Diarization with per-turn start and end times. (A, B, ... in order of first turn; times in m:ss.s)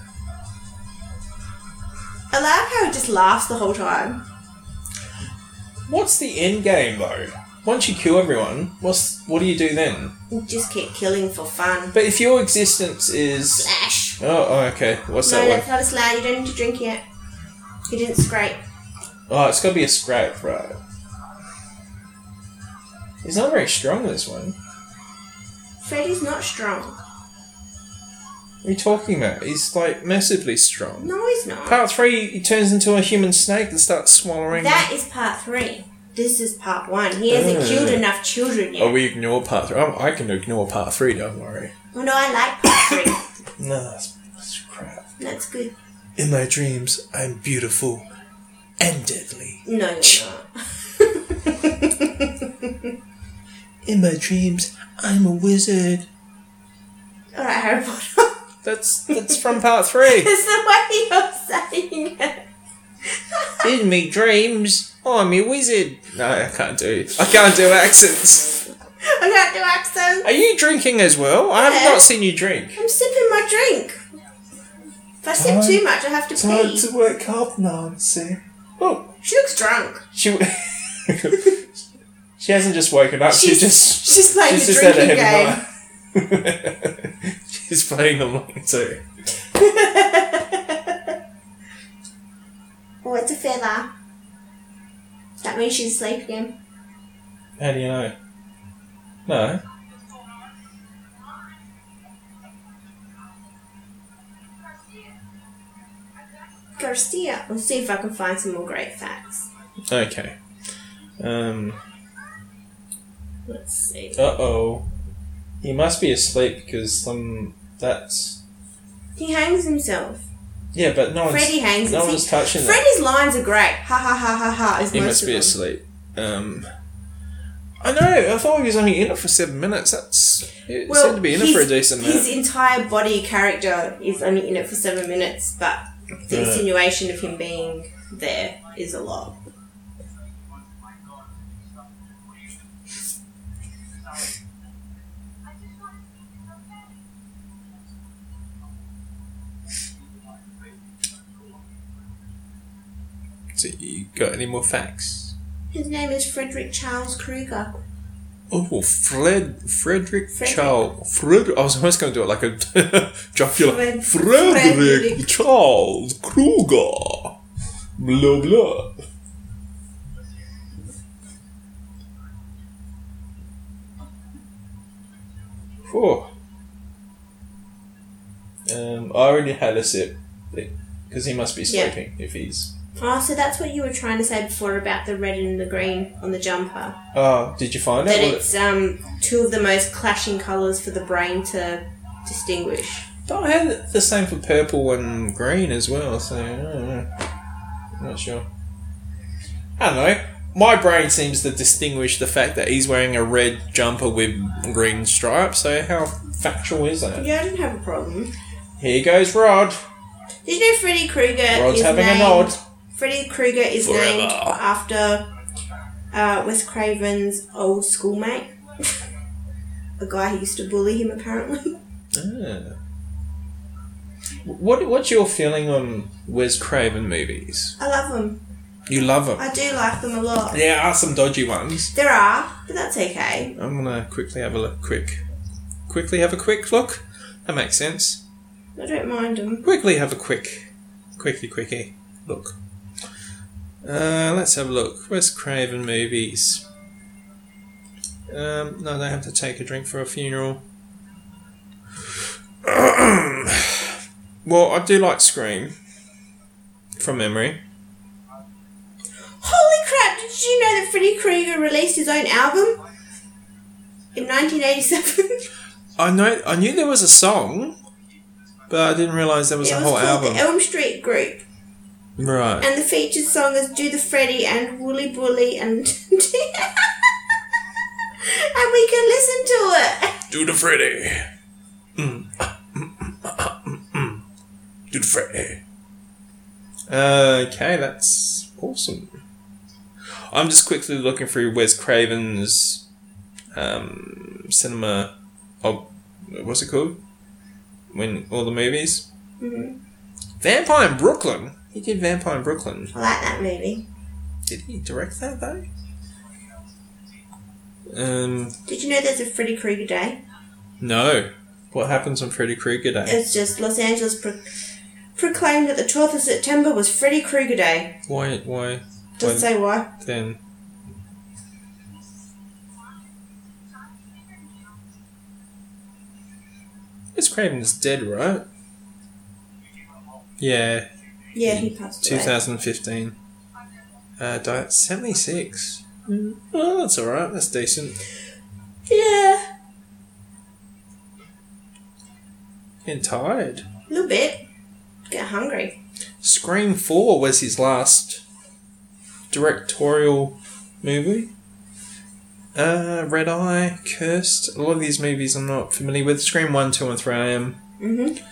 0:02.3-0:04.2 A
0:05.9-0:10.1 B
0:10.3-0:11.9 A
0:11.9-0:13.7 B
0:13.6-0:14.2 A
0:14.2-0:15.6 B
0:15.2-0:17.0 A
0:17.9-0:18.6 A
0:19.3-0:20.8 B
0:23.2-0:24.6 B
0:25.8-0:27.0 A
0:28.6-0:31.1 B
0:31.0-0:31.8 A
0:31.6-0:34.9 B
0:34.5-0:39.0 A
0:37.3-0:38.1 B
0:38.8-0:41.7 B
0:41.9-0:43.3 A
0:43.6-0:45.1 B
0:45.2-0:45.7 A
0:46.2-0:48.1 B
0:48.8-0:50.2 B
0:49.6-0:52.9 A
0:53.8-0:56.1 B
0:57.3-0:58.3 A
0:58.6-1:00.3 B
0:59.1-0:59.5 A
1:00.0-1:02.4 A
1:03.1-1:03.7 A
1:03.6-1:08.6 B
1:09.0-1:10.3 A
1:10.2-1:12.8 B
1:11.6-1:12.1 A
1:12.7-1:14.0 A
1:15.2-1:16.8 A
1:15.3-1:19.1 B
1:19.2-1:20.0 A
1:20.1-1:21.8 B
1:22.4-1:29.0 B
1:23.3-1:25.6 A
1:29.5-1:31.1 A
1:33.0-1:33.9 A
1:35.4-1:36.6 A
1:37.6-1:38.1 B
1:39.2-1:39.6 B
1:46.8-1:49.5 A
1:49.9-1:50.4 B
1:51.2-1:51.8 B
1:53.5-1:54.2 A
1:54.2-1:54.9 B
1:55.6-1:58.4 B
1:59.2-2:00.2 A
2:00.7-2:02.9 B
2:01.3-2:05.6 A
2:04.9-2:06.7 B
2:07.8-2:12.3 B
2:10.9-2:19.4 A
2:16.3-2:16.7 B
2:33.5-2:35.3 B
2:35.7-2:37.8 A
2:38.5-2:47.4 B
2:40.3-2:40.8 A
2:43.6-2:45.3 A
2:48.0-2:49.0 B
2:55.8-2:56.3 B
2:58.6-3:02.7 B
3:01.7-3:01.9 A
3:03.0-3:07.0 A
3:07.1-3:08.5 B
3:08.0-3:13.0 A
3:13.2-3:17.1 B
3:18.0-3:18.5 B
3:19.8-3:27.3 B
3:27.2-3:28.3 A
3:28.8-3:29.8 B
3:30.4-3:35.3 A
3:31.5-3:32.6 B
3:33.8-3:34.6 B
3:36.1-3:39.0 A
3:40.0-3:41.8 A
3:42.1-3:42.8 B
3:44.4-3:47.8 B
3:47.8-3:48.4 A
3:48.9-3:49.4 B
3:49.4-3:50.6 A
3:50.5-3:51.9 B
3:51.9-3:53.5 A
3:53.5-3:55.2 B
3:55.9-3:58.2 B
3:58.8-3:59.6 A
3:59.6-4:02.6 B
4:03.8-4:06.6 B
4:08.3-4:10.6 B
4:12.6-4:15.7 B
4:17.0-4:17.6 B
4:19.4-4:22.8 A
4:24.1-4:25.4 A
4:26.0-4:27.8 B
4:28.7-4:30.4 B
4:29.6-4:31.4 A
4:32.2-4:32.7 B
4:32.6-4:37.1 A
4:38.2-4:40.3 A
4:40.3-4:41.3 B
4:42.0-4:44.2 B
4:44.9-4:45.6 B
4:46.9-4:49.2 B
4:50.3-4:52.8 B
4:53.5-4:57.0 B
4:57.9-4:59.0 B
4:59.4-4:59.8 A
5:00.4-5:02.9 B
5:02.9-5:03.9 A
5:04.5-5:05.7 B
5:07.9-5:08.6 B
5:08.7-5:10.2 A
5:10.8-5:13.2 B
5:13.0-5:14.5 A
5:15.2-5:18.0 A
5:18.1-5:20.4 B
5:19.2-5:19.9 A
5:27.1-5:28.4 B
5:30.4-5:30.9 B
5:31.3-5:32.4 A
5:31.4-5:33.2 B
5:34.2-5:38.0 B
5:38.9-5:39.4 A
5:42.8-5:43.6 B
5:43.9-5:44.4 A
5:45.1-5:45.8 A
5:46.2-5:48.2 B
5:49.3-5:51.3 B
5:52.5-5:57.6 B
5:57.8-5:58.2 A